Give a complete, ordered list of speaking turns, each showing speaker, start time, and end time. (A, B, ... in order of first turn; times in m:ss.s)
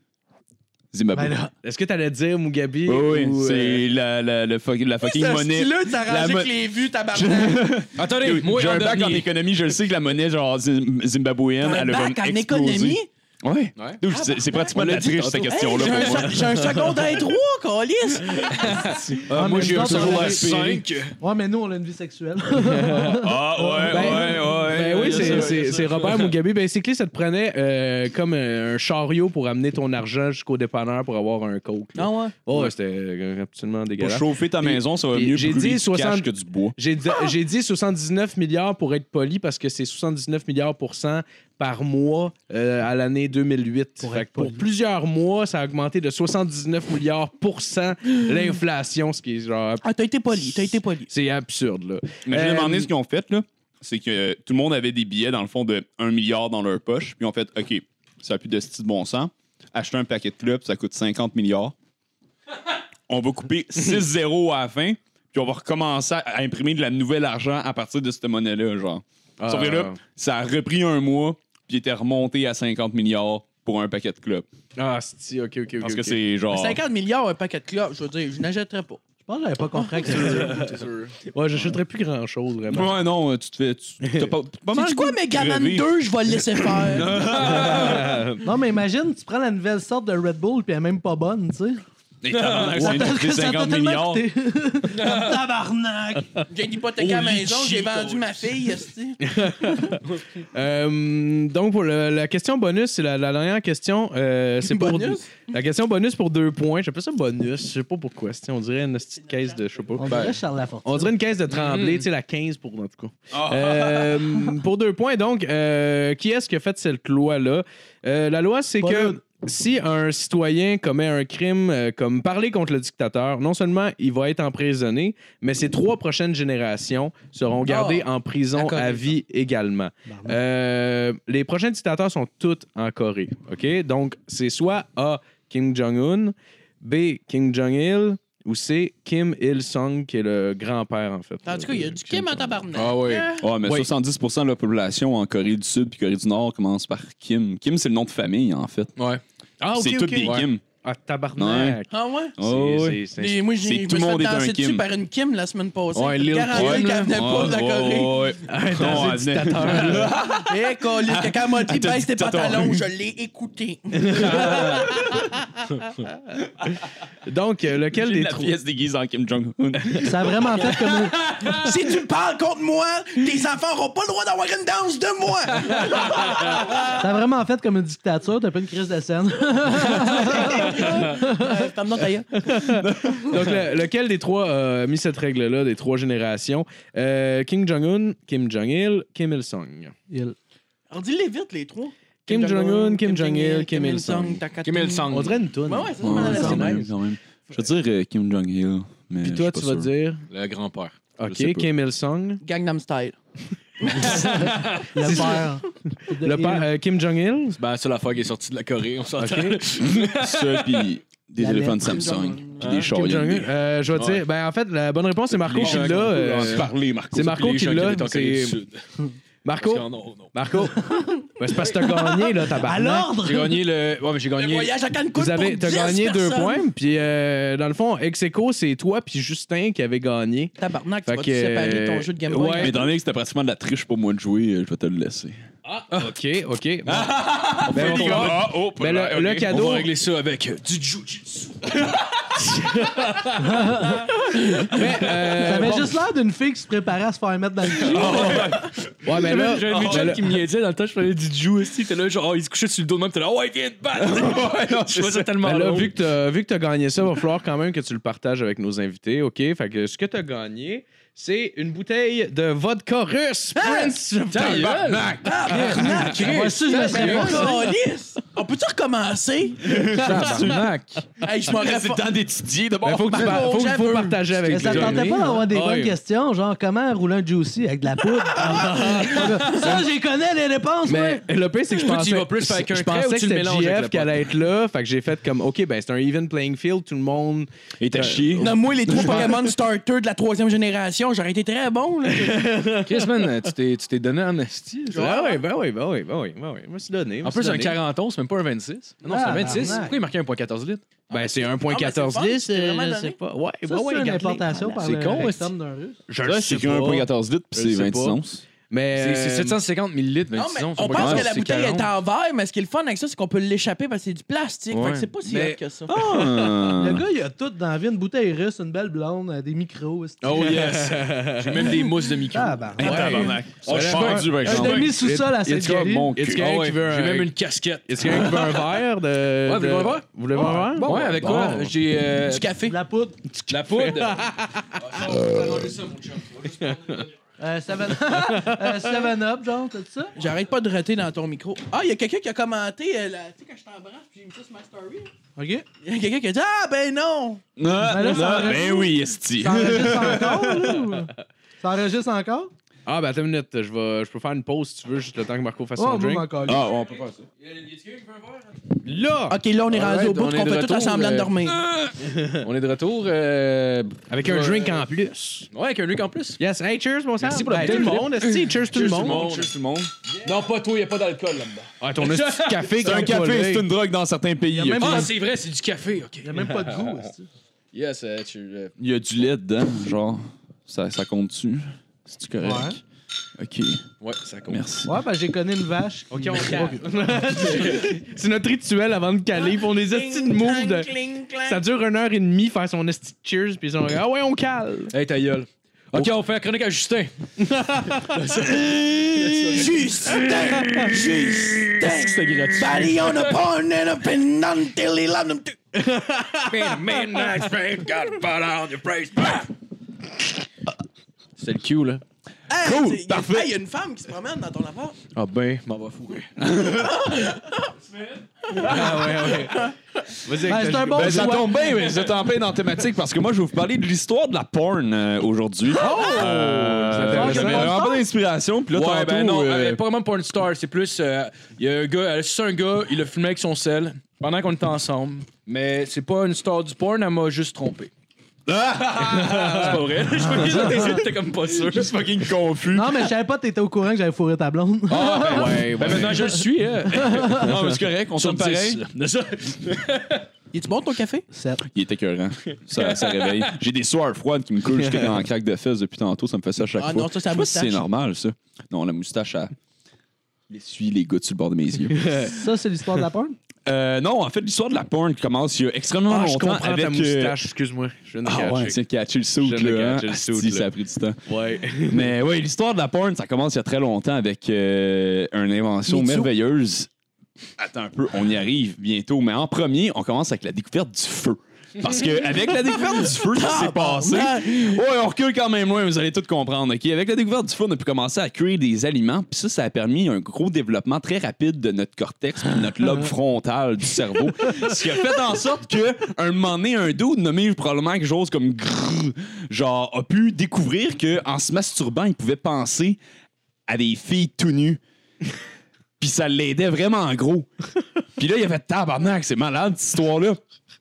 0:00.9-0:01.4 A
0:01.2-0:01.4 B
0:01.5-0:03.8 C
0:02.8-0:06.5 A
0:05.0-0:07.8 D
0:07.1-0:16.5 A
0:08.0-0:09.3 E
0:11.6-0:13.1 D
0:14.1-0:18.8 D
0:14.8-0:16.2 E
0:18.5-0:21.2 E
0:19.3-0:20.7 B
0:19.4-0:20.8 A
0:21.2-0:24.5 B
0:22.6-0:23.2 C
0:23.1-0:25.9 A
0:23.9-0:49.8 C
0:24.9-0:26.3 E
0:32.0-0:32.4 D
0:34.0-0:36.8 A
0:44.0-0:44.6 B
0:49.8-0:51.1 D
0:50.4-0:52.9 C
0:52.2-1:01.7 A
1:03.1-1:14.5 A
1:09.4-1:10.0 C
1:14.8-1:16.2 C
1:15.8-1:16.8 A
1:16.5-1:19.0 D
1:19.3-1:20.7 B
1:20.0-1:21.1 E
1:20.2-1:20.5 C
1:21.3-1:22.9 C
1:22.7-1:28.2 A
1:24.7-1:27.3 D
1:27.3-1:28.1 E
1:27.4-1:28.4 C
1:28.4-1:31.8 B
1:32.2-1:34.2 A
1:32.3-1:33.2 E
1:32.7-1:36.5 B
1:34.9-1:35.4 E
1:36.5-1:39.2 D
1:37.0-1:38.1 A
1:37.1-1:38.4 E
1:39.2-1:40.0 C
1:40.5-1:50.2 C
1:44.6-1:45.3 D
1:49.2-1:50.1 D
1:50.0-1:51.1 B
1:50.1-1:50.4 E
1:50.8-2:22.6 C
1:51.5-1:52.1 E
1:53.3-1:54.3 A
1:58.8-1:59.2 B
2:07.6-2:09.2 D
2:10.1-2:10.4 B
2:21.5-2:23.5 D
2:22.7-2:23.3 E
2:23.4-2:28.9 A
2:29.0-2:29.2 E
2:29.6-2:33.5 C
2:29.7-2:30.6 A
2:30.2-2:30.5 E
2:31.4-2:31.8 A
2:31.9-2:32.4 D
2:32.4-2:33.0 A
2:33.2-2:38.4 D
2:33.6-2:34.8 A
2:35.9-2:37.2 E
2:36.5-2:42.8 A
2:38.5-2:40.2 C
2:39.8-2:45.1 D
2:44.0-2:44.9 C
2:47.3-2:48.5 C
2:47.9-2:50.6 A
2:50.0-2:51.5 B
2:51.5-2:57.0 D
2:56.9-3:01.6 B
3:00.3-3:02.5 D
3:02.4-3:10.0 C
3:02.8-3:03.6 A
3:10.1-3:10.4 B
3:10.9-3:16.9 D
3:12.3-3:14.4 C
3:14.6-3:15.4 E
3:15.1-3:16.8 B
3:16.0-3:19.9 A
3:19.2-3:20.2 C
3:20.3-3:21.0 E
3:21.2-3:22.4 C
3:21.2-3:21.7 A
3:22.4-3:23.2 D
3:23.8-3:24.2 D
3:23.9-3:24.2 C
3:24.0-3:25.2 E
3:24.2-3:26.7 B
3:25.0-3:25.4 C
3:26.2-3:27.6 C
3:27.5-3:30.8 E
3:29.2-3:29.6 C
3:29.8-3:33.5 A
3:31.4-3:31.9 B
3:31.8-3:32.8 D
3:32.7-3:38.6 C
3:33.9-3:34.2 E
3:35.4-3:39.0 E
3:35.5-3:37.1 A
3:39.4-3:43.1 C
3:39.6-3:40.3 E
3:40.8-3:41.3 B
3:42.0-3:43.6 B
3:43.2-3:44.7 E
3:44.4-3:46.6 D
3:45.2-3:50.6 C
3:50.6-3:52.9 D
3:51.1-3:52.7 C
3:52.3-3:55.4 A
3:55.6-3:56.1 E
3:55.9-3:59.9 C
3:56.9-3:59.8 A
3:57.7-3:58.4 E
3:59.4-4:01.9 E
4:02.6-4:03.8 E
4:03.4-4:04.1 B
4:04.6-4:06.0 C
4:05.4-4:08.5 B
4:07.8-4:08.8 A
4:07.8-4:16.0 E
4:09.0-4:10.2 C
4:09.6-4:10.2 A
4:14.0-4:15.3 A
4:15.4-4:24.8 C
4:23.6-4:24.0 D
4:24.3-4:27.6 E
4:24.4-4:26.2 A
4:25.2-4:29.7 D
4:25.7-4:27.7 B
4:27.0-4:27.5 C
4:29.6-4:30.7 A
4:29.8-4:30.5 C
4:29.9-4:31.1 E
4:31.2-4:32.1 D
4:31.4-4:33.5 A
4:32.8-4:36.0 C
4:33.1-4:34.5 D
4:34.5-4:41.2 B
4:34.5-4:35.2 E
4:38.4-4:39.8 C
4:40.9-4:49.3 C
4:41.7-4:44.3 E
4:47.8-4:49.4 A
4:48.4-4:52.6 D
4:52.1-4:53.1 C
4:52.8-4:55.1 E
4:54.9-4:55.4 D
4:54.9-4:57.8 C
4:57.2-5:00.8 E
4:59.0-5:00.0 B
5:01.1-5:03.2 D
5:01.1-5:05.2 C
5:03.7-5:06.0 B
5:04.7-5:05.5 E
5:06.1-5:08.2 C
5:06.2-5:08.4 A
5:08.7-5:09.6 C
5:09.0-5:11.9 E
5:10.3-5:16.0 D
5:10.9-5:11.3 A
5:14.7-5:15.6 E
5:15.9-5:17.1 A
5:16.6-5:20.7 B
5:20.2-5:25.0 E
5:20.3-5:21.8 C
5:22.3-5:26.1 B
5:22.8-5:26.6 A
5:22.8-5:27.3 C
5:26.3-5:28.8 E
5:27.9-5:31.7 C
5:29.4-5:32.5 E
5:30.5-5:30.9 B
5:31.2-5:31.5 A
5:32.3-5:32.8 D
5:32.7-5:33.4 B
5:33.5-5:37.1 E
5:33.5-5:34.8 C
5:35.1-5:35.7 A
5:36.7-5:37.0 C
5:37.4-5:40.2 B
5:38.2-5:39.1 C
5:40.2-5:45.1 D
5:45.4-5:45.7 B
5:45.8-5:47.4 D
5:47.6-5:50.9 A
5:47.8-5:52.5 B
5:52.9-5:56.3 C
5:55.8-5:56.6 B
5:56.4-5:57.2 A
5:56.6-5:58.8 E
5:58.8-5:59.4 C
5:59.3-6:01.6 D
5:59.7-6:01.4 E
6:02.2-6:04.9 E
6:04.1-6:05.5 C
6:05.5-6:06.4 E
6:06.4-6:09.3 C
6:07.2-6:09.5 E
6:07.6-6:08.1 A
6:08.7-6:09.9 A
6:10.1-6:12.9 E
6:11.8-6:13.7 C
6:12.8-6:15.1 A
6:14.5-6:15.2 B
6:14.8-6:17.1 E
6:16.2-6:17.3 B
6:17.7-6:18.7 E
6:18.8-6:22.8 A
6:22.4-6:22.8 B
6:23.4-6:23.8 A
6:24.0-6:24.6 E
6:24.5-6:24.9 A
6:24.9-6:27.6 B
6:26.2-6:30.9 C
6:26.3-6:26.7 E
6:27.4-6:27.9 E
6:29.4-6:31.6 D
6:31.5-6:34.9 C
6:34.9-6:37.1 E
6:37.6-6:39.6 C
6:37.8-6:43.4 E
6:39.5-6:45.6 D
6:45.8-6:46.8 C
6:46.4-6:49.5 E
6:51.4-6:52.0 E
6:52.5-6:55.0 D
6:52.5-6:53.5 A
6:55.1-6:56.4 E
6:56.4-6:57.3 A
6:56.8-6:57.7 D
6:57.9-6:59.7 E
6:58.7-6:59.5 C
7:00.2-7:01.4 C
7:00.4-7:01.6 B
7:00.9-7:09.8 A
7:05.8-7:07.7 C
7:06.2-7:07.8 E
7:07.0-7:08.0 B
7:08.7-7:17.9 E
7:18.5-7:23.1 A
7:19.1-7:22.2 E
7:20.6-7:20.9 B
7:22.7-7:25.7 B
7:24.9-7:27.6 E
7:25.2-7:26.1 C
7:25.8-7:26.4 A
7:26.9-7:27.4 B
7:27.1-7:28.8 A
7:28.2-7:30.3 E
7:30.5-7:31.3 D
7:31.3-7:31.6 B
7:31.7-7:39.5 A
7:32.7-7:33.6 E
7:36.8-7:37.8 D
7:40.5-7:42.2 A
7:41.9-7:42.3 C
7:42.2-7:43.4 B
7:43.7-7:47.4 A
7:46.1-7:48.8 C
7:48.2-7:51.2 A
7:49.4-7:50.7 C
7:51.3-7:52.1 C
7:51.8-7:56.9 A
7:57.6-8:23.0 A
8:02.9-8:04.8 D
8:23.7-8:24.8 A
8:26.0-8:27.5 A
8:28.2-8:30.4 A